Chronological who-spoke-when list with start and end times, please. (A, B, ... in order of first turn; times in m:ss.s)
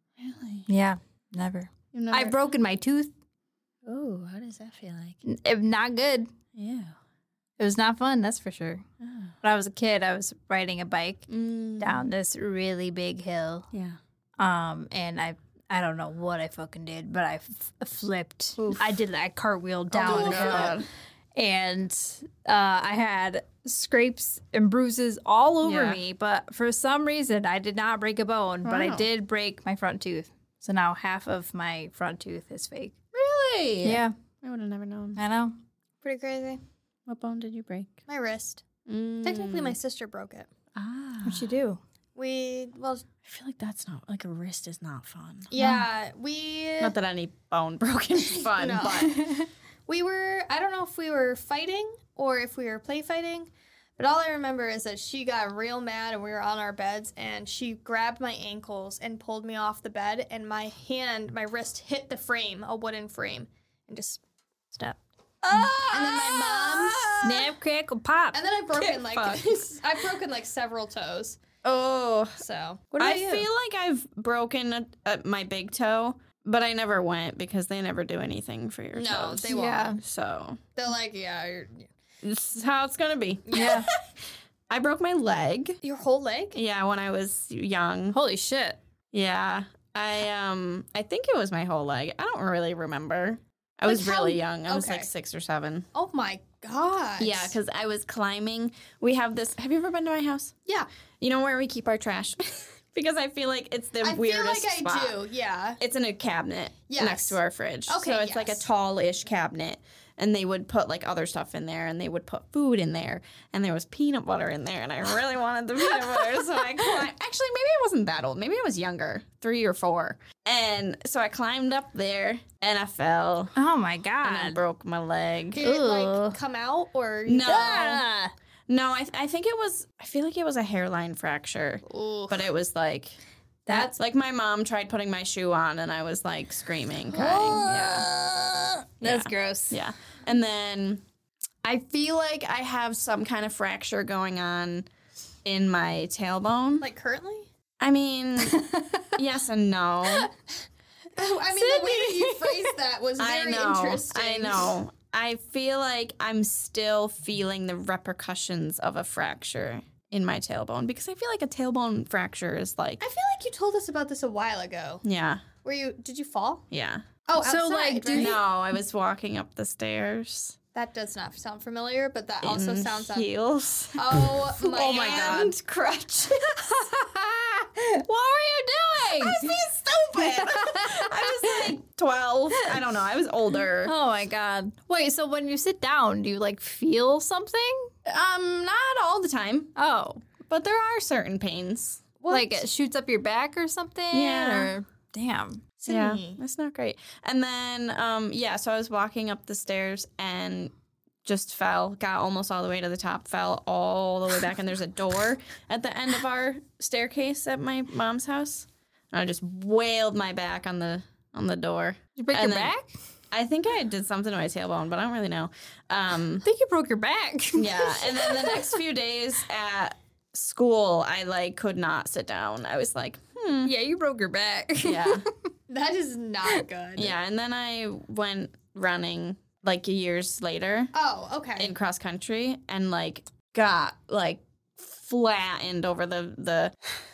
0:00.3-0:00.6 A
0:00.7-0:03.1 B
0:01.9-0:02.4 A
0:03.8-0:05.1 C
0:05.2-0:06.3 B
0:06.6-0:06.9 A
0:07.6-0:08.8 B
0:09.0-0:09.3 A
0:09.4-0:13.6 B
0:11.3-0:12.1 A
0:13.7-0:14.0 A
0:14.4-0:20.8 B
0:18.6-0:18.8 A
0:19.9-0:20.9 A
0:20.0-0:20.8 C
0:21.3-0:32.9 B
0:25.6-0:26.0 A
0:28.6-0:29.0 A
0:33.1-0:35.2 A
0:33.8-0:34.1 B
0:35.2-0:35.6 B
0:36.0-0:36.6 C
0:37.1-0:38.0 A
0:38.1-0:38.6 C
0:38.8-0:39.8 A
0:39.2-0:40.5 C
0:40.7-0:41.5 A
0:41.2-0:41.8 B
0:42.2-0:43.0 C
0:43.2-0:45.5 A
0:45.5-0:46.9 C
0:45.6-0:45.8 B
0:46.8-0:49.1 A
0:48.4-1:05.0 C
0:49.0-0:49.5 B
1:05.4-1:07.5 A
1:05.5-1:05.8 B
1:05.9-1:07.3 C
1:07.2-1:08.4 B
1:08.3-1:11.4 C
1:09.0-1:09.4 B
1:11.6-1:12.4 A
1:12.4-1:13.5 C
1:13.0-1:20.6 A
1:18.9-1:20.0 C
1:19.5-1:20.0 B
1:20.8-1:21.9 C
1:22.2-1:23.9 A
1:23.5-1:23.8 C
1:23.5-1:23.8 B
1:24.7-1:25.8 A
1:25.8-1:26.6 C
1:26.5-1:28.2 A
1:28.1-1:28.8 B
1:29.1-1:35.9 A
1:33.8-1:35.1 C
1:35.9-1:37.6 C
1:37.2-1:40.5 A
1:41.2-1:45.2 A
1:44.0-1:45.8 C
1:45.8-2:03.5 A
1:46.9-1:48.7 C
2:03.6-2:04.6 B
2:04.2-2:05.6 A
2:05.5-2:08.0 C
2:05.6-2:06.4 B
2:07.2-2:08.0 A
2:07.4-2:08.3 B
2:08.7-2:13.1 A
2:11.8-2:12.5 C
2:13.7-2:13.9 B
2:13.7-2:18.1 A
2:17.1-2:19.8 B
2:19.0-2:21.0 A
2:21.6-2:24.8 A
2:25.4-2:26.9 A
2:26.8-2:27.5 C
2:27.8-2:30.3 A
2:28.5-2:28.7 B
2:31.1-2:34.7 C
2:31.5-2:32.8 B
2:33.2-2:43.0 A
2:43.0-2:45.0 C
2:45.0-2:45.4 A
2:45.6-2:46.6 C
2:46.7-2:47.0 A
2:47.3-2:48.4 C
2:47.4-2:48.4 B
2:48.1-2:50.6 A
2:50.7-2:53.3 C
2:52.4-2:56.7 A
2:54.0-2:55.5 C
2:54.6-2:55.5 B
2:56.5-2:59.5 B
2:59.0-3:03.9 A
3:00.1-3:01.7 B
3:03.8-3:07.9 B
3:08.0-3:09.7 A
3:09.8-3:10.2 B
3:10.5-3:12.0 A
3:12.2-3:12.6 C
3:12.3-3:15.6 B
3:14.1-3:14.7 A
3:15.8-3:16.4 C
3:15.9-3:20.7 A
3:21.2-3:32.7 A
3:32.2-3:32.9 B
3:33.3-3:36.4 A
3:36.4-3:38.8 B
3:37.5-3:43.7 A
3:43.6-3:45.2 B
3:44.8-3:45.3 A
3:45.7-3:47.1 C
3:47.0-3:50.9 A
3:50.9-3:51.7 C
3:51.6-3:56.8 A